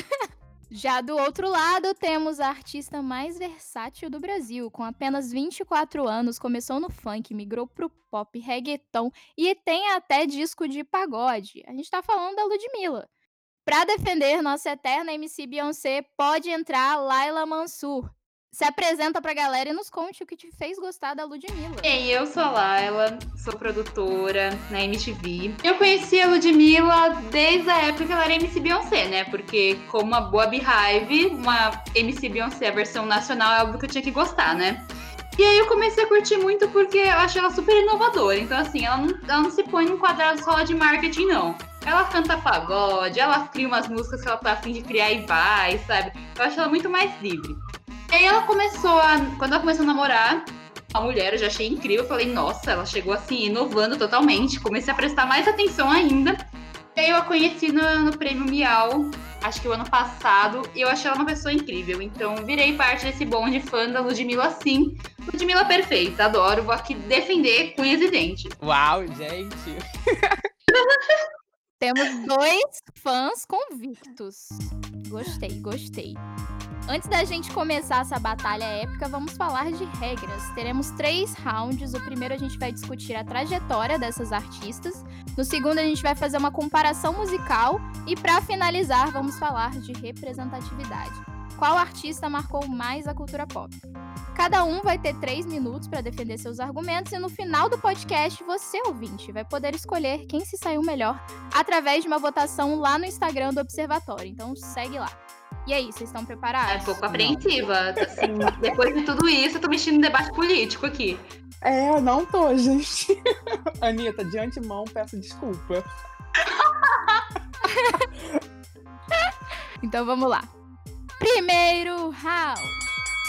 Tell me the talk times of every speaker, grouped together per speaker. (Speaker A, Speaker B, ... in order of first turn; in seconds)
Speaker A: 0.7-13.1, 13.7-21.9, 71.8-76.2, 76.9-93.8, 94.3-107.0, 117.7-118.1, 119.8-120.5, 121.2-122.8
Speaker B: 21.8-34.9, 35.4-56.4, 56.9-68.5, 70.7-71.2, 106.7-111.2, 116.6-117.2
Speaker C: 68.6-69.8, 107.1-107.5, 108.0-108.6, 111.6-113.2, 113.8-115.8